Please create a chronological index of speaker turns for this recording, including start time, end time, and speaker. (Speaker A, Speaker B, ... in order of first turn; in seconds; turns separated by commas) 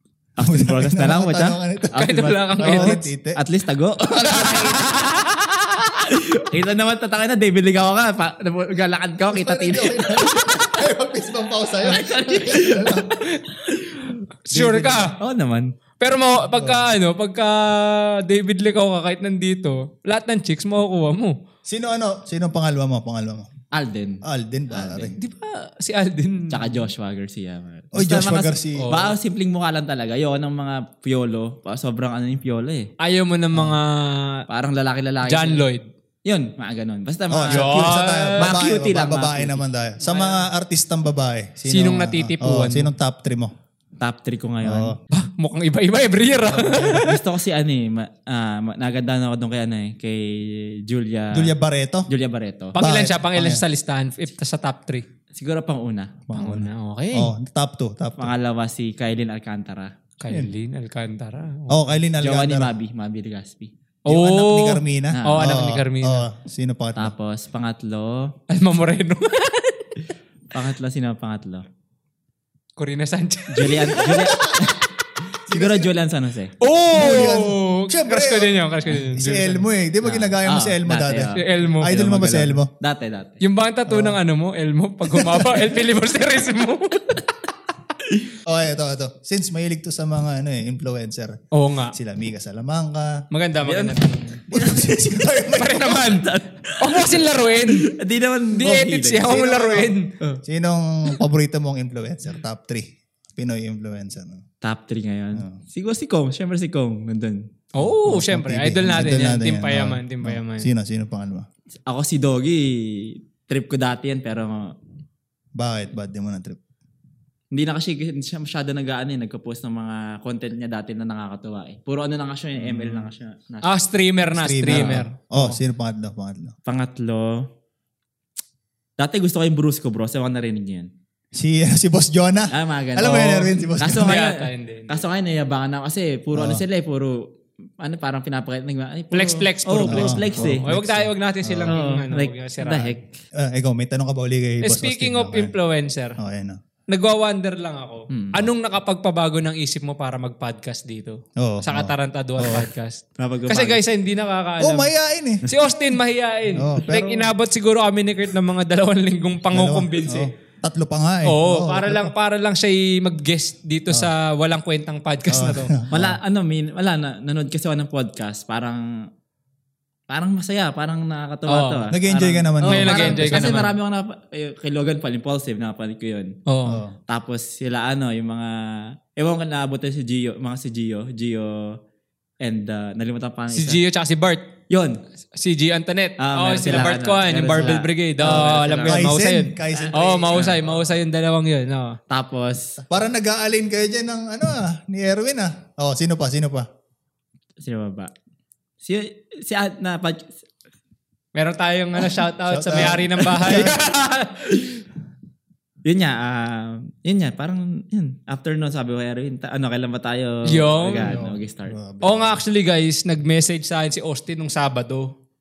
Speaker A: 0.4-5.0, Speaker B: 0.4-2.0, Speaker C: 1.9-3.1, Speaker B: 2.6-3.4, Speaker C: 4.2-5.3, Speaker A: 5.8-10.7, Speaker B: 9.3-13.2, Speaker A: 11.8-13.0, Speaker C: 12.9-15.2, Speaker B: 14.5-14.9, Speaker A: 14.7-15.7, Speaker C: 16.0-21.3, Speaker B: 16.5-16.9, Speaker B: 21.7-23.5, Speaker A: 23.7-25.1, Speaker B: 24.2-25.1, Speaker C: 25.1-26.7, Speaker A: 26.5-32.9, Speaker B: 27.9-28.9, Speaker C: 28.7-29.1, Speaker C: 33.0-34.4, Speaker A: 34.5-35.6, Speaker C: 35.2-35.8, Speaker A: 36.2-39.6, Speaker B: 37.3-43.5, Speaker C: 37.5-38.5, Speaker C: 40.1-40.4, Speaker C: 41.7-42.9, Speaker A: 44.0-45.0, Speaker B: 44.6-45.0, Speaker C: 45.1-47.2, Speaker A: 46.5-51.5, Speaker B: 51.3-52.1, Speaker A: 52.1-52.8, Speaker C: 52.7-55.0, Speaker B: 52.8-53.6, Speaker A: 55.3-56.2, Speaker B: 56.3-58.3, Speaker C: 56.3-57.3, Speaker A: 58.2-59.9, Speaker C: 60.2-62.0, Speaker B: 61.7-62.7, Speaker A: 62.2-63.7, Speaker C: 64.1-66.3, Speaker B: 64.1-67.1, Speaker A: 65.1-65.5, Speaker A: 67.0-68.3, Speaker C: 68.5-70.1, Speaker A: 70.5-71.6, Speaker C: 72.8-74.7, Speaker A: 73.5-74.8, Speaker A: 75.5-76.5, Speaker B: 75.5-75.9, Speaker C: 76.6-79.7, Speaker B: 76.9-82.7, Speaker A: 80.0-83.4, Speaker C: 81.3-81.9, Speaker C: 83.4-87.3, Speaker B: 83.9-84.2, Speaker B: 85.1-85.7, Speaker B: 88.5-91.4, Speaker C: 91.5-92.0, Speaker B: 91.9-93.2, Speaker C: 93.3-94.5, Speaker A: 93.6-94.0, Speaker B: 94.5-96.1, Speaker C: 95.4-97.9, Speaker A: 96.0-100.4, Speaker C: 98.5-100.1, Speaker B: 99.3-99.9, Speaker B: 100.5-102.8, Speaker B: 103.3-104.4, Speaker A: 104.6-107.4, Speaker C: 107.7-110.7, Speaker B: 107.8-111.5, Speaker A: 111.8-114.7, Speaker B: 115.6-116.6, Speaker A: 117.5-123.8, Speaker B: 122.6-123.1, Speaker C: 123.6-125.6, Speaker B: 124.3-126.5, Speaker A: 124.6-125.0, Speaker A: 126.7-127.4, Speaker A: 129.0-130.9, Speaker B: 131.3-134.1, Speaker A: 132.5-137.2, Speaker C: 133.1-135.0, Speaker B: 136.3-136.6, Speaker A: 137.8-140.7, Speaker C: 139.1-142.9, Speaker B: 139.8-141.8, Speaker A: 141.6-143.1, Speaker B: 143.4-145.5, Speaker C: 144.6-146.2, Speaker B: 146.2-146.6, Speaker C: 146.9-154.9, Speaker A: 148.1-148.5, Speaker B: 151.4-152.7, Speaker A: 153.2-153.8, Speaker B: 154.6-155.5, Speaker C: 155.4-160.3, Speaker B: 156.6-157.3, Speaker B: 159.5-162.1, Speaker C: 161.2-165.7, Speaker B: 165.3-166.2, Speaker A: 165.9-168.9, Speaker A: 170.1-176.3, Speaker C: 171.5-171.9, Speaker B: 171.9-173.6, Speaker C: 172.6-173.7, Speaker C: 176.4-176.8, Speaker B: 176.7-176.9, Speaker A: 177.1-181.7, Speaker A: 182.4-183.8, Speaker C: 183.5-184.5, Speaker A: 184.7-184.9, Speaker C: 185.3-192.0, Speaker A: 186.2-189.1, Speaker B: 188.2-190.8, Speaker A: 189.7-190.6, Speaker A: 192.1-192.8, Speaker B: 192.9-196.7, Speaker A: 197.6-198.1, Speaker A: 198.8-200.3, Speaker C: 201.3-204.8, Speaker B: 202.5-203.8, Speaker A: 203.3-203.7, Speaker A: 205.8-211.8, Speaker C: 210.5-211.2, Speaker B: 211.0-212.4, Speaker C: 212.0-215.1